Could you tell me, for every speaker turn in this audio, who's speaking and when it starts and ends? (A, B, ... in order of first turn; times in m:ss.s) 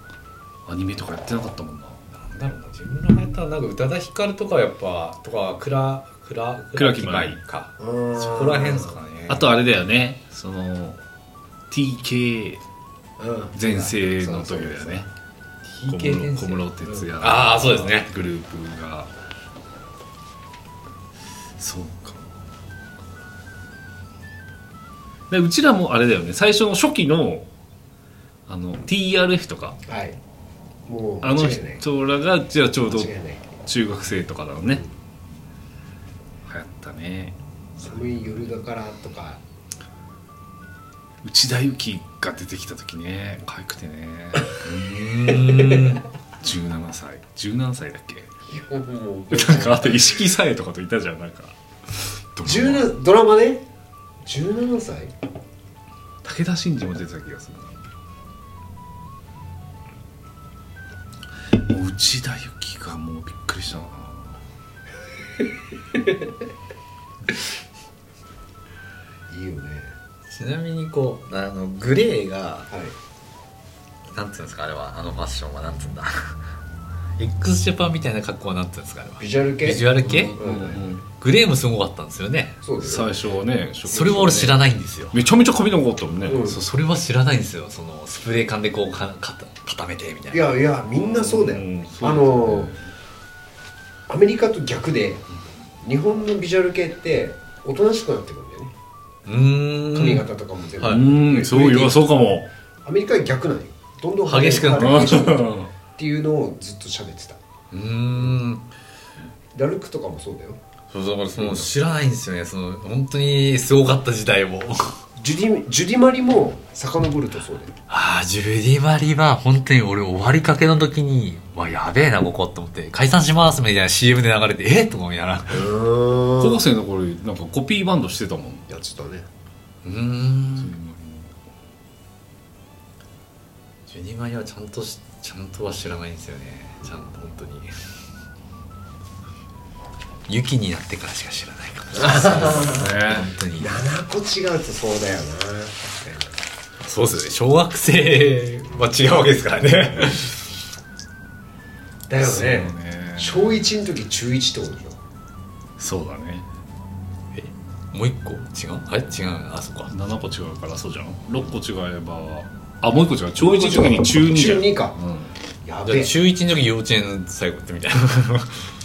0:00.7-0:02.0 A
0:02.1-0:09.5 B
0:06.8-0:07.4 A
0:07.8-0:09.0 C
0:09.3-0:11.0 A
0:11.7-0:12.6 A
0:13.2-0:15.0 C
0:13.5-0:15.1 A
0:15.6-0:18.1 B
0:15.9-0:19.1 A
0:21.6-0:22.2 A
0:25.3-0:27.5 A
0:28.5-0:29.8 A
0:29.9-0:30.2 C
0:30.9-0:31.8 C
0:31.2-0:34.8 A
0:32.9-0:33.4 C
0:36.5-0:37.4 A
0:37.8-0:39.4 C
0:41.2-0:44.9 A
0:44.6-0:46.0 B
0:45.3-0:46.0 C
0:46.4-0:48.3 A
0:48.5-0:50.0 C
0:49.3-0:52.9 A
0:52.4-0:53.7 C
0:54.2-0:55.1 C
0:56.2-0:57.8 A
1:01.7-1:04.4 A
1:09.3-1:09.9 C
1:10.3-1:12.7 B
1:14.1-1:16.4 B
1:17.2-1:20.4 B
1:19.2-1:20.8 C
1:20.0-1:21.1 A
1:21.2-1:22.6 B
1:22.6-1:23.1 C
1:22.8-1:26.5 A
1:23.9-1:25.2 B
1:26.3-1:26.6 C
1:26.5-1:30.5 B
1:30.3-1:32.7 C
1:31.0-1:32.8 A
1:34.1-1:35.3 C
1:35.8-1:38.7 C
1:39.2-1:40.3 B
1:39.9-1:42.0 C
1:40.8-1:42.5 A
1:42.8-1:47.4 C
1:44.3-1:45.3 B
1:44.7-1:45.7 A
1:47.7-1:48.6 B
1:49.5-1:50.6 C
1:50.9-1:55.0 B
1:51.3-1:51.7 C
1:55.2-1:57.7 C
1:57.9-2:05.7 B
2:05.5-2:06.6 C
2:06.4-2:08.6 A
2:08.7-2:09.3 C
2:09.8-2:10.8 B
2:10.6-2:11.3 A
2:13.9-2:17.7 B
2:20.3-2:23.9 B
2:22.0-2:22.9 C
2:22.6-2:23.3 A
2:23.6-2:26.3 C
2:26.8-2:30.4 B
2:32.1-2:35.0 C
2:32.2-2:33.6 A
2:35.8-2:36.5 A
2:37.4-2:39.9 B
2:39.9-2:45.3 A
2:43.4-2:45.0 C
2:45.6-2:46.2 C
2:45.9-2:48.6 B